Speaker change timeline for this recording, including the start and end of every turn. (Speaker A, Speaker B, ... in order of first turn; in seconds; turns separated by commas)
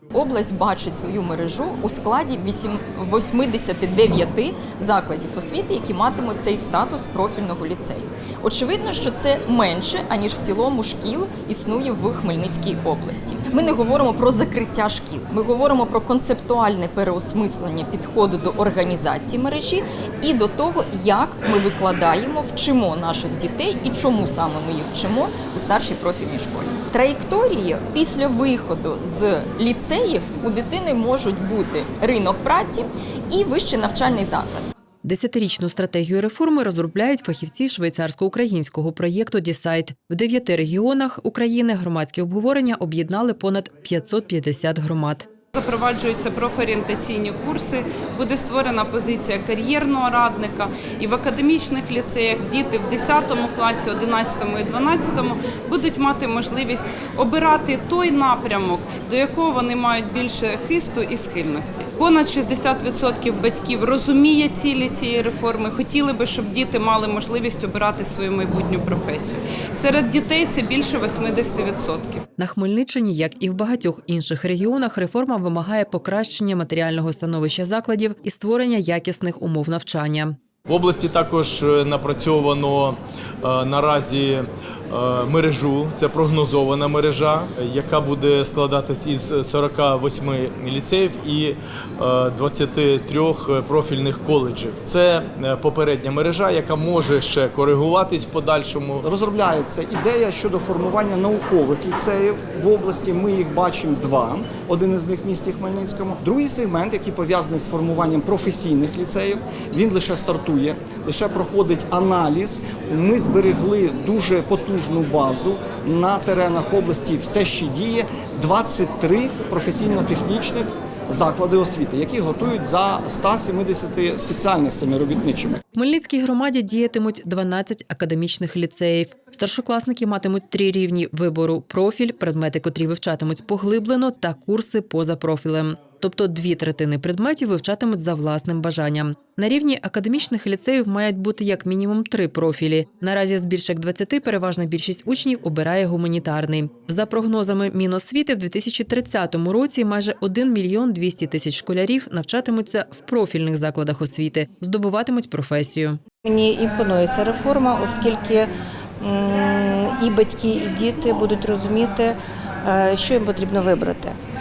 Speaker A: 0.1-34.7, Speaker B: 35.0-45.3, Speaker C: 45.5-72.2, Speaker B: 72.4-80.4, Speaker D: 80.7-99.0, Speaker E: 99.0-125.6, Speaker B: 125.8-156.0, Speaker F: 156.2-158.5, Speaker F: 159.0-164.1